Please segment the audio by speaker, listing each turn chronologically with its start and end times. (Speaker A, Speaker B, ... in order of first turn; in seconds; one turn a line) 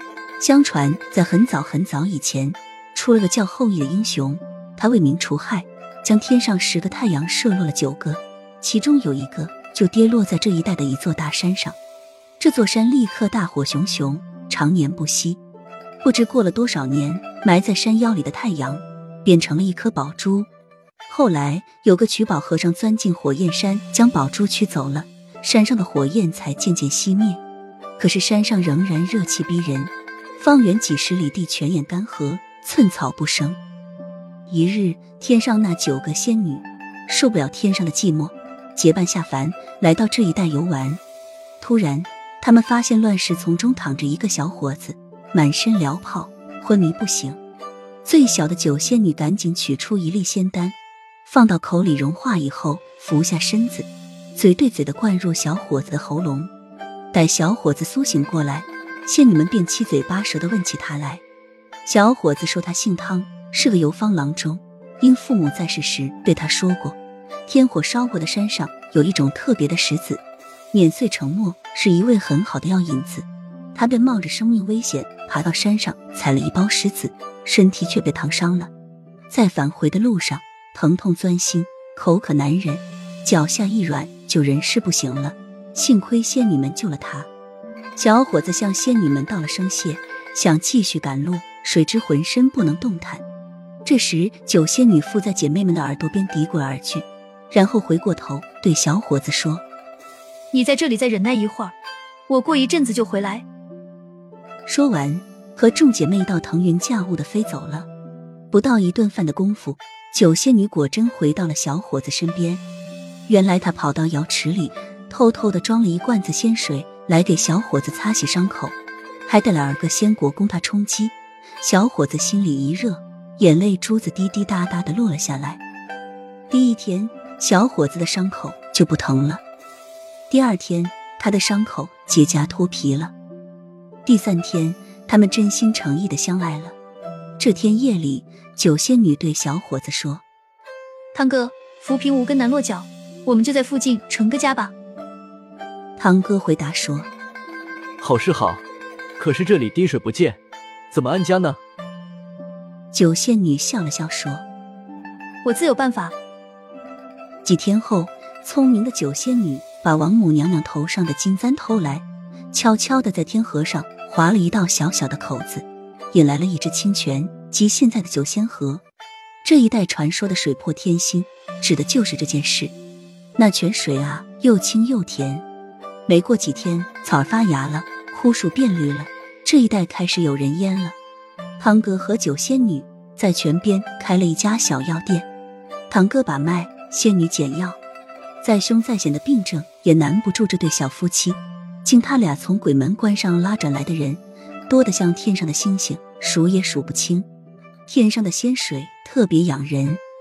Speaker A: 0.4-11.8
Speaker A: 12.4-15.4
Speaker A: 16.0-20.5
Speaker A: 21.1-27.4
Speaker A: 28.0-33.6
Speaker A: 34.5-41.0
Speaker A: 41.6-47.4
Speaker A: 48.0-56.5
Speaker A: 57.1-61.2
Speaker A: 61.8-78.7
Speaker A: 79.3-87.3
Speaker A: 88.0-93.2
Speaker A: 93.8-99.6
Speaker B: 100.5-101.7
Speaker B: 102.3-103.4
Speaker A: 104.7-107.9
Speaker A: 108.5-112.6
Speaker A: 113.3-125.6
Speaker A: 126.5-129.4
Speaker A: 130.3-133.1
Speaker A: 134.0-136.8
Speaker A: 137.4-140.2
Speaker B: 141.1-144.7
Speaker A: 146.0-147.1
Speaker C: 148.0-148.6
Speaker C: 149.2-150.4
Speaker C: 150.9-151.6
Speaker A: 152.9-154.4
Speaker B: 155.4-156.1
Speaker A: 157.4-168.8
Speaker A: 169.4-172.7
Speaker A: 173.3-175.4
Speaker A: 176.1-181.0
Speaker A: 181.6-185.3
Speaker A: 185.9-187.8
Speaker A: 188.4-197.2
Speaker A: 197.9-200.0